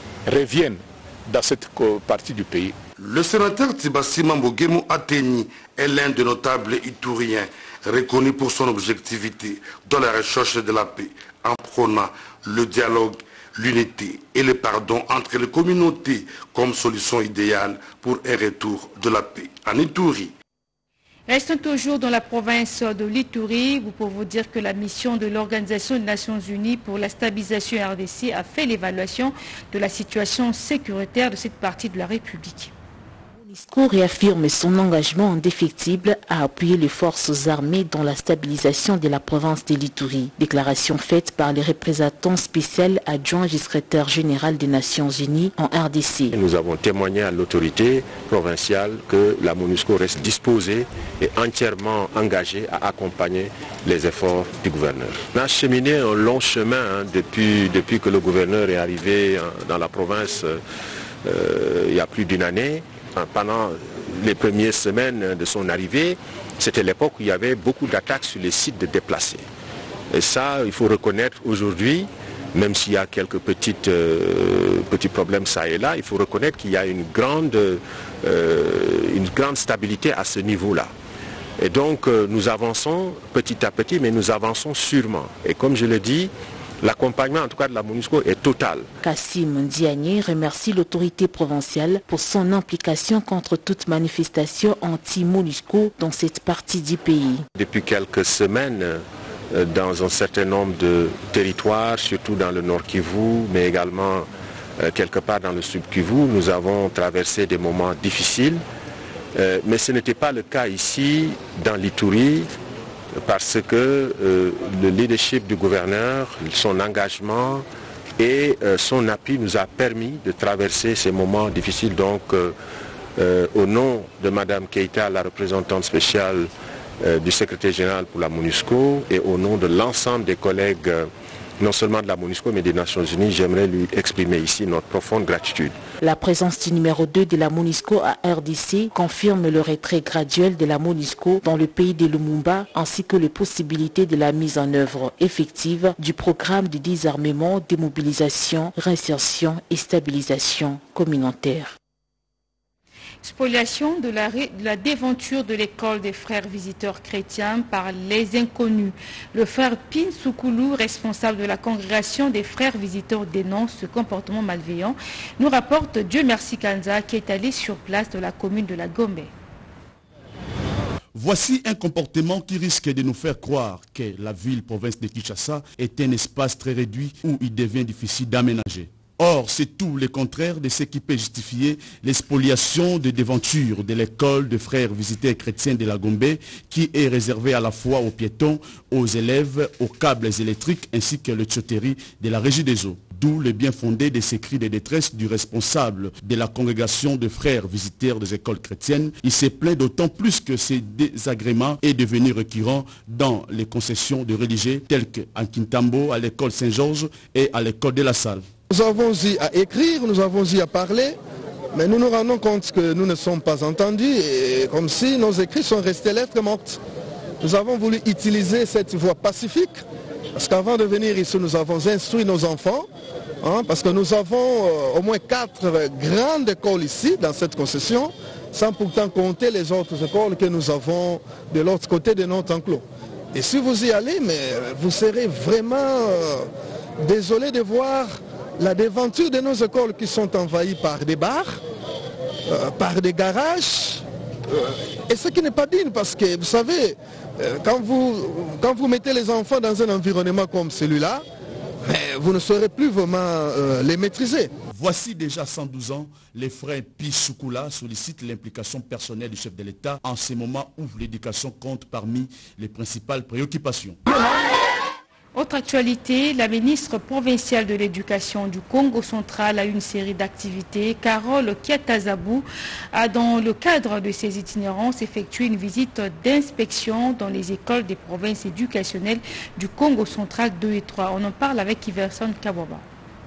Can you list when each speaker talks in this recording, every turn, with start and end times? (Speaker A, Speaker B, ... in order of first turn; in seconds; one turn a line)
Speaker A: 0.3-2.8
Speaker B: 3.0-20.3
Speaker C: 21.3-32.7
Speaker D: 33.4-46.4
Speaker E: 46.3-60.6
Speaker E: 61.2-69.5
Speaker E: 70.1-80.9
Speaker E: 81.6-88.9
Speaker D: 89.0-97.5
Speaker E: 97.6-108.6
Speaker E: 109.3-112.5
Speaker E: 113.2-117.7
Speaker E: 118.2-122.6
Speaker E: 123.2-126.5
Speaker E: 127.0-135.8
Speaker D: 136.0-151.8
Speaker C: 153.2-169.3
Speaker F: 171.2-208.5
Speaker G: 208.7-211.2
Speaker G: 211.7-216.8
Speaker G: 217.4-222.9
Speaker G: 223.4-241.6
Speaker G: 242.4-251.3
Speaker G: 251.8-254.5
Speaker F: 254.7-264.0
Speaker C: 265.4-282.8